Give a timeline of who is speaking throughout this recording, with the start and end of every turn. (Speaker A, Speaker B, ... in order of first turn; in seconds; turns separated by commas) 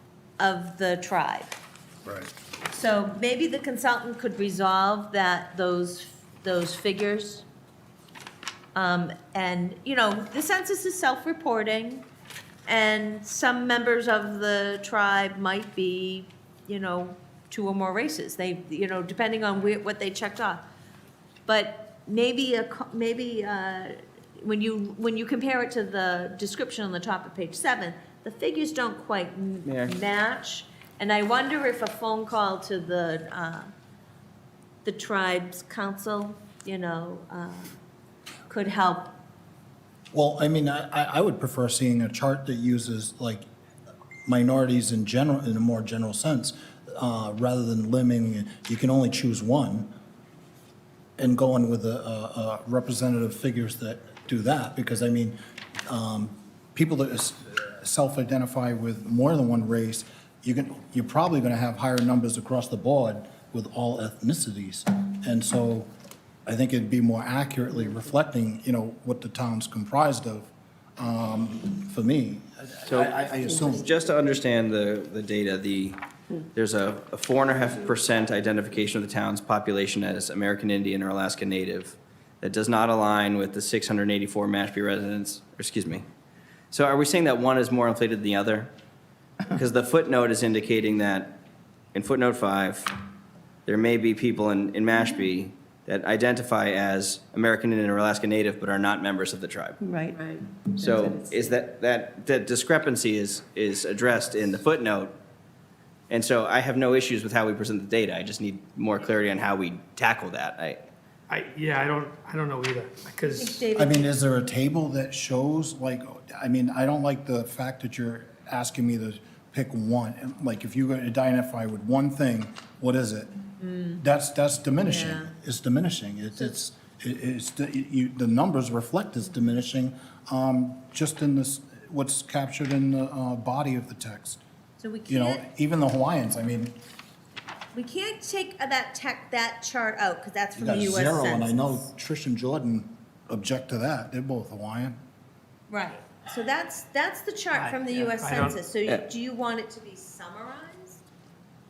Speaker A: 0.4-1.6, Speaker A: 2.7-7.4, Speaker A: 8.7-12.0, Speaker A: 12.7-20.6, Speaker A: 21.4-33.7, Speaker B: 29.6-29.9, Speaker A: 34.8-37.7, Speaker A: 38.5-39.1, Speaker C: 40.1-43.5, Speaker C: 44.2-49.9, Speaker C: 51.2-65.9, Speaker C: 66.5-73.9, Speaker B: 72.8-76.0, Speaker B: 76.5-86.0, Speaker B: 86.7-88.7, Speaker B: 89.5-91.3, Speaker B: 91.9-92.9, Speaker B: 93.7-99.8, Speaker A: 99.8-101.5, Speaker B: 100.8-105.1, Speaker B: 106.1-110.8, Speaker D: 111.3-113.6, Speaker A: 113.2-114.1, Speaker C: 113.7-123.3, Speaker A: 123.6-124.0, Speaker C: 124.0-134.4, Speaker A: 124.8-125.3, Speaker A: 134.8-135.4, Speaker C: 135.1-136.8, Speaker A: 137.7-141.8, Speaker C: 140.6-145.0, Speaker A: 145.7-151.0, Speaker D: 147.5-148.6